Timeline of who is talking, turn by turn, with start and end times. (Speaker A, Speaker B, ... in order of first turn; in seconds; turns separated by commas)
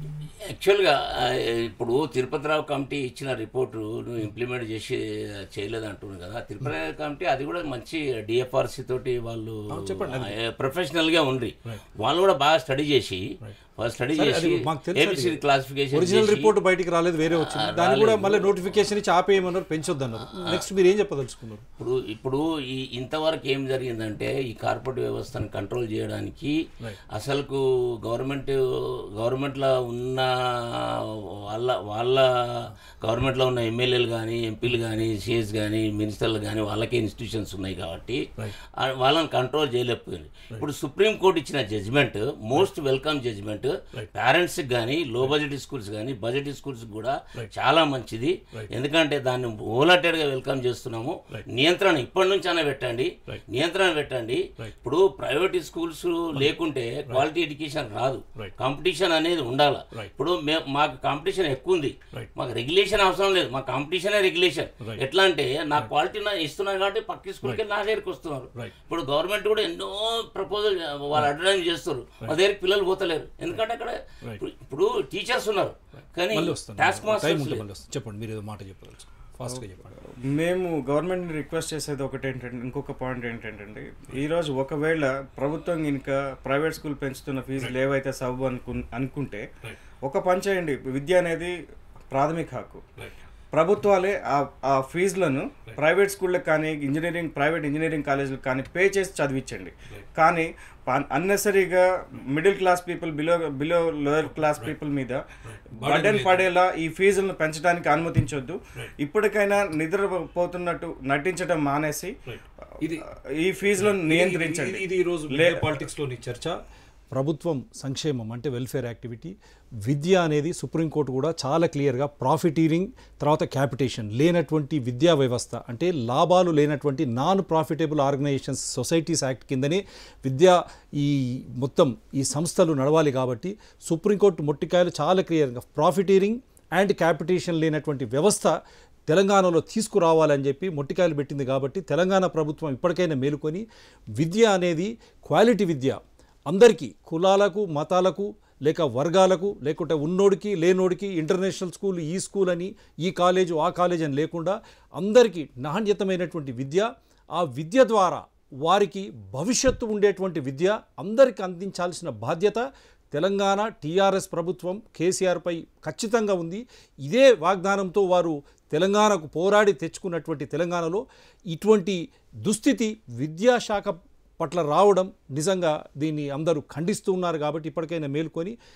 Speaker A: 0.4-13.3, Speaker B: 9.7-10.3, Speaker A: 13.8-16.6, Speaker B: 14.2-15.4, Speaker B: 15.9-21.7, Speaker A: 17.3-18.6, Speaker A: 20.3-20.7, Speaker A: 21.8-26.6, Speaker A: 27.1-77.6, Speaker B: 76.3-80.0, Speaker C: 79.5-89.5, Speaker C: 90.0-91.6, Speaker C: 92.1-92.8, Speaker C: 93.5-105.2, Speaker B: 104.2-104.8, Speaker B: 105.4-106.5, Speaker C: 105.8-112.2, Speaker B: 112.3-113.0, Speaker C: 113.1-115.8, Speaker B: 113.8-116.6, Speaker B: 117.1-138.6, Speaker B: 139.1-143.7, Speaker B: 144.2-178.6